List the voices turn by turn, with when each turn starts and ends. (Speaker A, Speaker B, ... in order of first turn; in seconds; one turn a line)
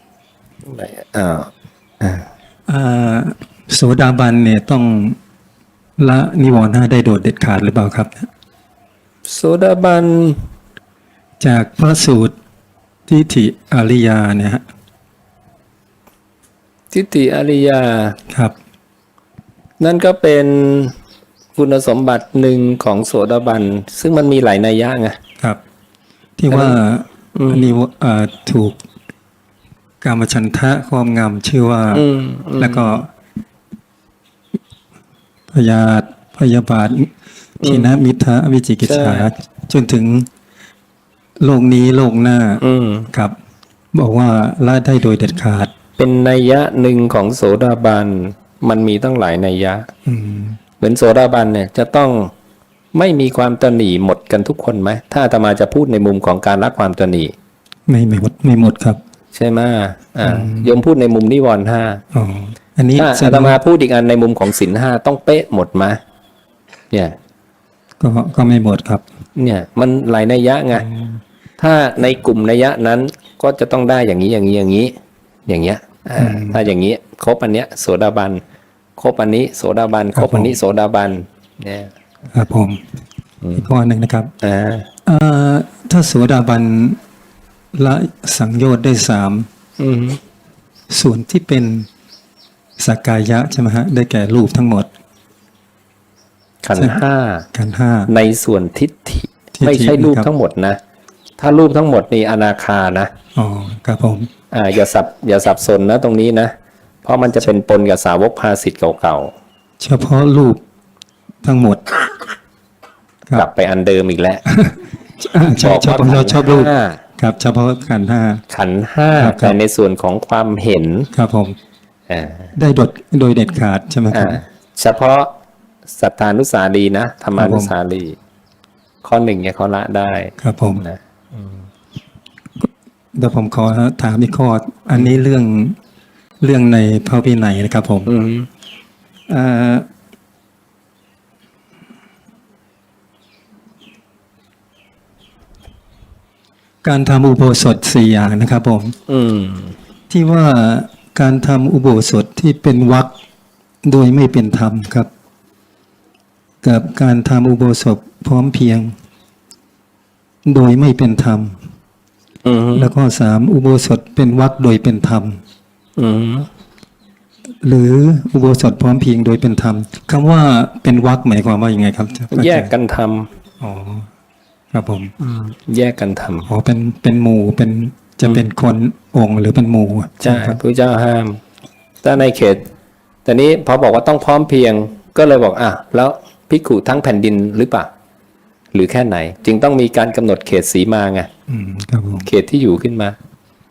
Speaker A: 0.6-1.5
Speaker A: 2.0-2.3
Speaker B: 2.7-5.2
Speaker B: 6.0-8.3
Speaker A: 9.3-10.4
Speaker B: 11.4-12.3
Speaker B: 13.1-14.6
Speaker A: 16.9-18.2
Speaker B: 18.3-18.5
Speaker A: 19.8-20.9
Speaker A: 21.6-25.2
Speaker B: 26.4-28.8
Speaker A: 26.5-26.8
Speaker A: 27.3-27.7
Speaker B: 30.0-32.0
Speaker A: 31.9-33.0
Speaker B: 32.6-33.1
Speaker B: 35.5-40.3
Speaker A: 37.6-38.0
Speaker A: 38.8-39.3
Speaker B: 41.4-43.4
Speaker A: 42.6-43.1
Speaker B: 43.9-45.7
Speaker A: 46.0-49.9
Speaker B: 50.1-50.6
Speaker A: 50.8-52.3
Speaker A: 52.9-57.3
Speaker B: 57.9-59.0
Speaker A: 59.3-62.0
Speaker B: 60.2-60.7
Speaker B: 62.1-63.6
Speaker A: 63.0-66.0
Speaker B: 68.0-69.0
Speaker A: 69.3-70.8
Speaker B: 70.8-71.2
Speaker A: 71.6-74.9
Speaker A: 75.5-78.4
Speaker B: 76.2-76.6
Speaker A: 79.0-81.9
Speaker B: 80.1-80.5
Speaker B: 82.3-82.8
Speaker A: 83.4-83.7
Speaker B: 83.6-84.3
Speaker A: 84.4-84.9
Speaker B: 85.0-87.0
Speaker B: 87.7-89.5
Speaker A: 89.8-90.2
Speaker B: 90.9-91.9
Speaker B: 92.8-94.9
Speaker A: 96.6-97.5
Speaker B: 97.5-98.1
Speaker A: 98.1-100.8
Speaker B: 99.5-100.3
Speaker A: 101.4-103.1
Speaker B: 103.3-104.3
Speaker A: 104.5-106.5
Speaker A: 107.0-109.3
Speaker B: 109.8-110.6
Speaker B: 111.4-111.9
Speaker A: 113.3-114.4
Speaker B: 114.5-118.4
Speaker A: 115.5-117.0
Speaker A: 118.5-121.1
Speaker B: 119.1-119.6
Speaker B: 121.1-121.5
Speaker A: 122.1-122.5
Speaker B: 122.5-124.4
Speaker A: 124.1-125.3
Speaker A: 126.0-128.2
Speaker B: 127.3-127.7
Speaker A: 129.0-131.6
Speaker B: 130.4-130.8
Speaker B: 132.6-135.8
Speaker B: 136.4-138.1
Speaker A: 138.1-138.5
Speaker B: 139.3-139.8
Speaker B: 146.8-148.9
Speaker A: 149.1-149.8
Speaker B: 150.1-153.1
Speaker B: 153.8-155.1
Speaker B: 156.6-158.9
Speaker B: 160.4-161.6
Speaker A: 162.4-162.9
Speaker B: 162.7-165.4
Speaker A: 166.0-166.5
Speaker B: 167.6-172.7
Speaker A: 172.3-173.3
Speaker B: 173.6-174.1
Speaker B: 174.7-175.1
Speaker A: 175.2-176.5
Speaker B: 176.4-180.6
Speaker A: 180.2-181.4
Speaker A: 182.0-182.6
Speaker A: 183.2-187.9
Speaker A: 188.7-191.3
Speaker B: 191.5-192.3
Speaker A: 192.2-193.2